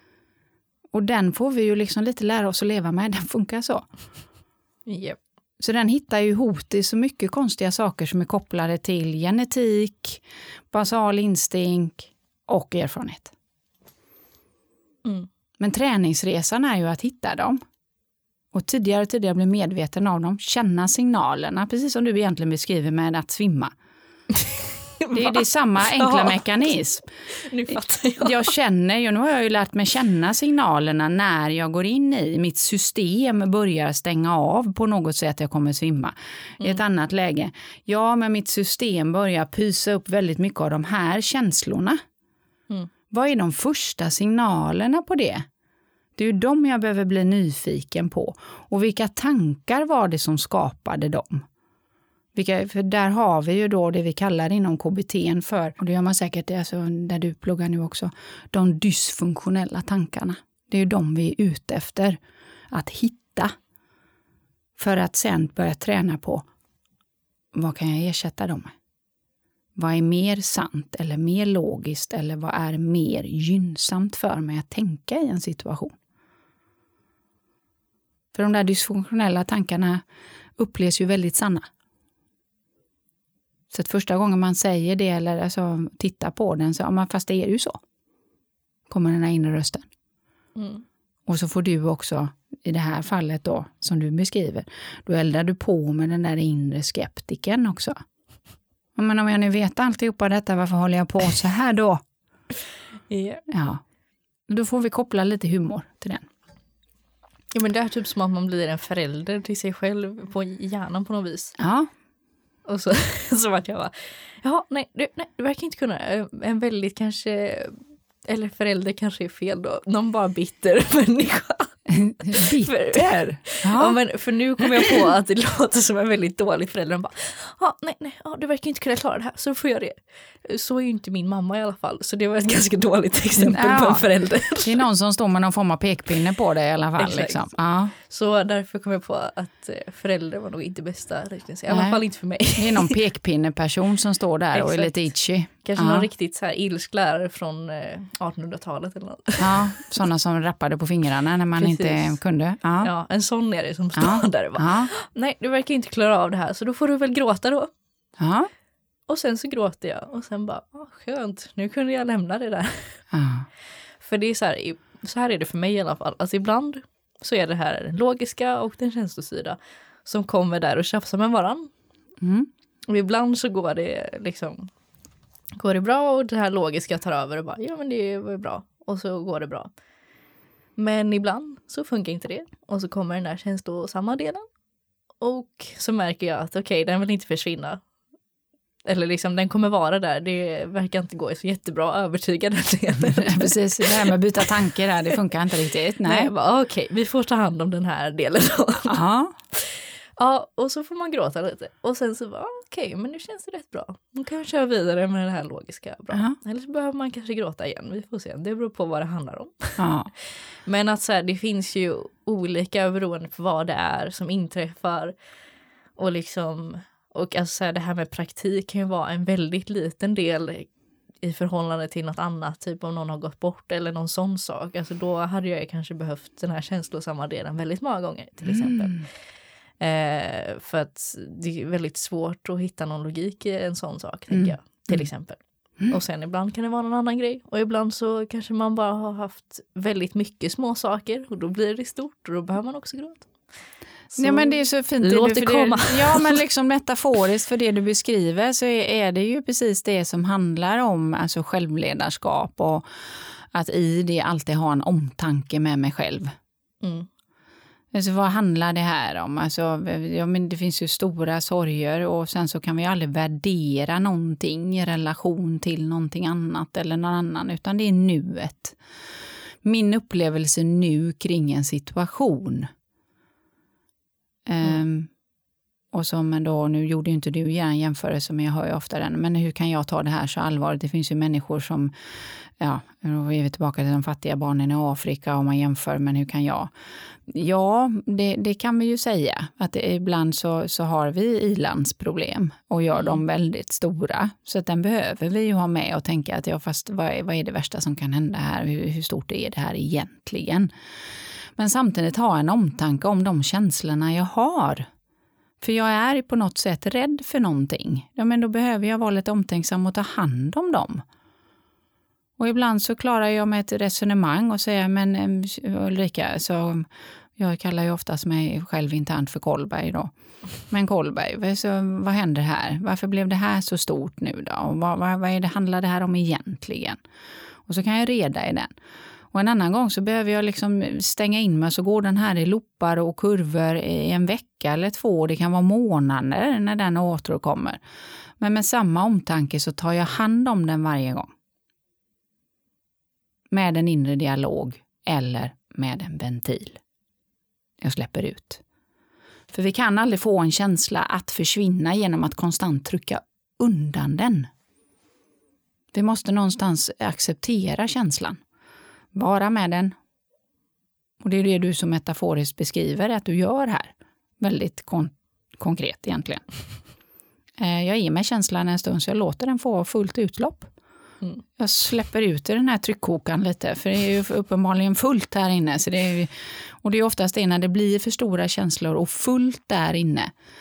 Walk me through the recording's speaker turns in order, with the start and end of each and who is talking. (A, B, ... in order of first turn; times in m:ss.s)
0:00.9-0:03.9 A
0:04.9-0:05.2 B
0:05.6-0:13.3 A
0:15.6-0:17.6 A
0:18.5-0:23.7 A
0:24.4-0:26.4 B
0:25.1-0:27.1 A
0:27.3-0:28.5 B
0:27.7-0:42.0 A
0:43.1-0:45.4 A
0:46.2-0:51.4 A
0:52.3-1:02.2 A
1:02.7-1:03.6 A
1:04.8-1:06.5 A
1:07.5-1:08.7 A
1:09.8-1:16.0 A
1:18.3-1:20.0 A
1:20.6-1:21.6 A
1:23.7-1:27.8 A
1:28.9-1:29.9 A
1:30.6-1:30.8 B
1:31.3-1:38.0 A
1:39.0-1:42.0 A
1:43.1-1:43.4 B
1:43.5-1:43.8 A
1:44.5-1:46.3 A
1:47.5-1:51.6 B
1:51.6-1:51.9 A
1:52.6-2:01.8 B
2:01.9-2:04.0 A
2:02.3-2:14.8 B
2:13.4-2:17.9 A
2:17.0-2:17.5 B
2:18.0-2:23.0 B
2:21.7-2:22.0 A
2:22.6-2:26.1 A
2:24.5-2:24.9 B
2:25.6-2:29.9 B
2:29.4-2:32.9 A
2:31.6-2:32.2 B
2:32.8-2:37.7 B
2:34.0-2:34.9 A
2:38.2-2:38.5 A
2:39.1-2:43.0 B
2:43.1-2:43.5 A
2:44.0-2:51.7 B
2:52.2-2:52.5 A
2:52.9-2:54.7 B
2:55.6-2:59.7 B
3:00.8-3:04.5 B
3:05.2-3:07.8 B
3:08.8-3:14.1 B
3:13.2-3:16.3 A
3:16.0-3:19.0 B
3:18.9-3:19.4 A
3:19.5-3:29.8 B
3:26.1-3:26.4 A
3:29.8-3:30.1 A
3:30.6-3:35.1 B
3:36.0-3:40.7 B
3:41.2-3:49.1 B
3:48.4-3:49.0 A
3:49.8-4:03.3 B
3:54.3-3:55.1 A
4:04.1-4:06.4 B
4:04.1-4:12.8 A
4:13.5-4:16.4 A
4:16.8-4:17.1 B
4:17.9-4:28.8 A
4:29.6-4:32.7 A
4:34.5-4:35.1 A
4:35.9-4:41.9 A
4:42.6-4:46.7 A
4:47.3-5:00.7 A
4:53.0-4:53.2 B
5:01.6-5:04.9 A
5:05.6-5:11.0 A
5:12.4-5:20.1 A
5:20.6-5:27.0 A
5:27.7-5:28.7 A
5:29.3-5:37.8 A
5:38.4-5:41.3 A
5:43.5-5:46.8 A
5:47.8-5:48.6 A
5:49.5-5:54.5 A
5:55.9-5:58.4 A
5:59.1-6:00.0 A
6:01.2-6:06.4 A
6:07.6-6:10.7 A
6:11.6-6:20.3 A